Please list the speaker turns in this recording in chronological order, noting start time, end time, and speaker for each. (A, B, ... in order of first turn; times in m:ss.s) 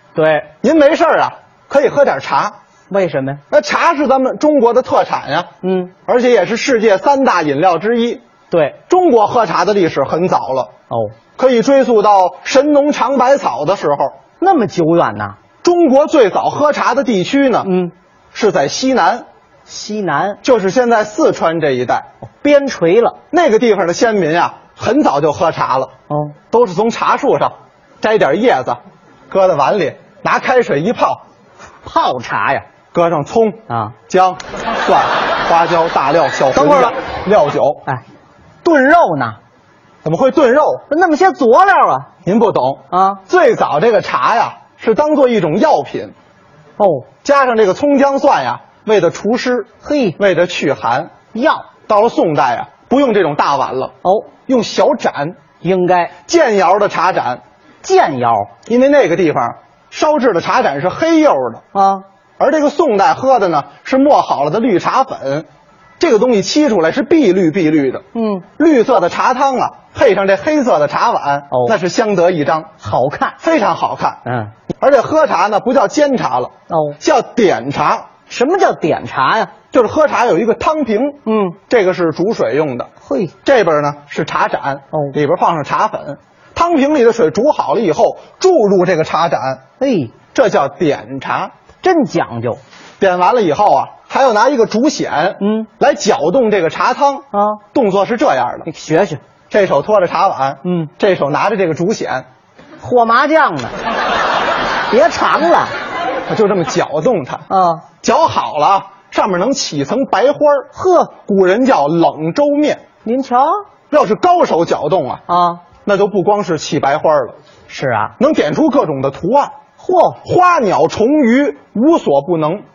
0:00.2-0:00.5 A
0:00.6-0:02.6 B
0:02.9-0:03.4 A
0:03.5-0:05.5 B
0:05.6-0:05.9 A
0:06.1-0:08.2 B
0:08.5-0:08.8 A
0:08.9-0:10.7 B
0:10.9-0:11.2 A
0:11.4-0:14.2 B
0:14.4-0:15.4 A
0:15.6-0:17.7 B
0:17.6-0:17.9 A
0:18.3-0:19.3 B
0:19.7-0:20.4 A
0:20.4-0:22.1 B
0:22.3-0:23.2 A
0:23.3-0:25.9 B
0:26.1-0:26.4 A
0:26.5-0:31.2 B
0:31.8-0:32.7 A
0:32.9-0:37.8 B
0:33.7-0:33.9 A
0:36.6-0:37.0 A
0:38.6-0:39.4 A
0:40.0-0:40.9 B
0:40.9-0:42.1 A
0:42.2-0:46.1 B
0:42.9-0:43.2 A
0:46.8-0:47.1 A
0:47.2-0:51.1 B
0:49.8-0:50.2 A
0:51.3-0:51.7 A
0:51.9-0:54.0 B
0:54.0-0:54.3 A
0:54.5-0:55.4 B
0:55.6-0:56.1 A
0:56.3-0:57.4 B
0:57.8-0:58.5 A
0:58.7-1:01.6 B
1:01.7-1:02.0 A
1:02.4-1:05.5 B
1:06.0-1:08.0 B
1:08.1-1:08.4 A
1:08.6-1:12.7 B
1:12.8-1:13.4 A
1:13.4-1:14.2 B
1:14.3-1:14.5 A
1:14.8-1:18.1 B
1:16.7-1:17.0 A
1:18.3-1:19.5 A
1:19.7-1:22.9 B
1:21.3-1:21.6 A
1:23.0-1:23.3 A
1:23.4-1:29.6 B
1:29.8-1:30.2 A
1:30.3-1:31.5 B
1:31.8-1:32.6 A
1:33.0-1:38.7 B
1:35.4-1:35.7 A
1:37.3-1:37.6 A
1:38.7-1:39.2 A
1:39.5-1:42.3 B
1:42.8-1:43.7 A
1:44.9-1:45.7 A
1:46.3-1:47.5 B
1:47.5-1:47.8 A
1:48.0-1:52.8 B
1:50.7-1:51.2 A
1:53.0-1:53.6 A
1:53.9-1:55.2 B
1:55.3-1:55.6 A
1:55.8-1:57.4 B
1:57.7-1:58.2 A
1:58.2-1:59.5 B
1:59.8-2:00.2 A
2:00.2-2:02.6 B